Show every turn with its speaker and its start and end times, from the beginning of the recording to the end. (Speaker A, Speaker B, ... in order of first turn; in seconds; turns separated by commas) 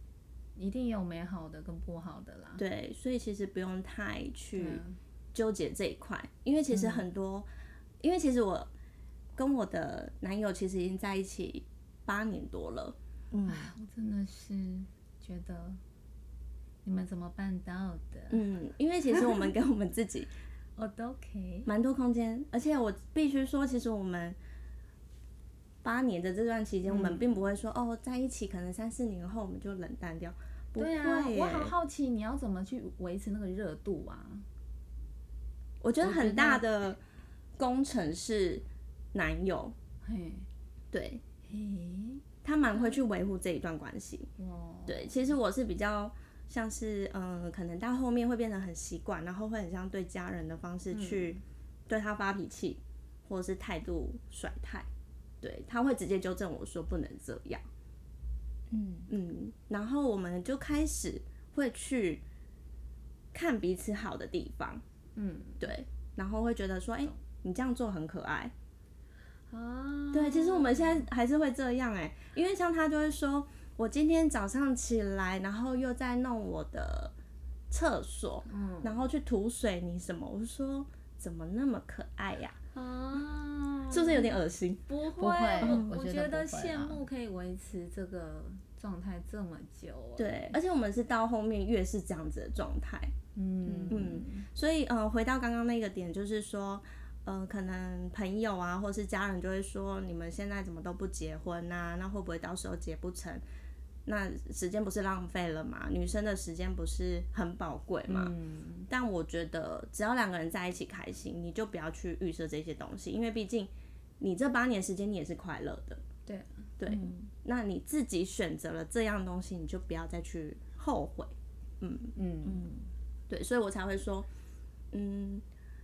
Speaker A: 0.6-2.6, Speaker B: 2.6-7.5, Speaker A: 4.6-5.0, Speaker C: 6.7-7.0, Speaker B: 8.0-8.7, Speaker B: 9.3-13.0, Speaker C: 13.3-13.7, Speaker A: 13.5-15.8, Speaker A: 16.9-18.4, Speaker B: 18.3-20.3, Speaker A: 20.8-21.7, Speaker B: 21.7-24.4, Speaker B: 25.8-31.8, Speaker A: 26.9-27.2, Speaker A: 30.8-34.5, Speaker B: 35.8-37.0, Speaker A: 36.0-36.6, Speaker B: 37.6-39.8, Speaker A: 40.0-40.5, Speaker B: 40.9-41.2, Speaker A: 41.5-42.2, Speaker B: 42.4-44.3, Speaker A: 44.4-45.2, Speaker B: 44.9-54.9, Speaker A: 50.9-51.4, Speaker B: 55.4-57.7, Speaker C: 58.7-59.1, Speaker B: 59.1-62.2, Speaker B: 63.3-64.8, Speaker A: 65.2-65.6, Speaker B: 65.6-68.5, Speaker A: 69.5-71.1, Speaker B: 70.1-77.1, Speaker B: 77.7-82.6, Speaker A: 78.5-79.0, Speaker A: 82.7-84.3, Speaker B: 83.9-84.8, Speaker A: 84.9-90.6, Speaker C: 85.2-87.0, Speaker B: 85.6-85.9, Speaker B: 90.2-93.1, Speaker A: 93.3-94.5, Speaker C: 93.6-94.1, Speaker B: 93.9-103.4, Speaker B: 104.1-108.3, Speaker A: 108.1-108.9, Speaker B: 108.9-116.0, Speaker A: 116.3-116.7, Speaker B: 116.8-122.1, Speaker C: 116.9-117.3, Speaker A: 122.2-122.6, Speaker C: 122.5-122.9, Speaker B: 123.3-124.3, Speaker B: 124.9-125.5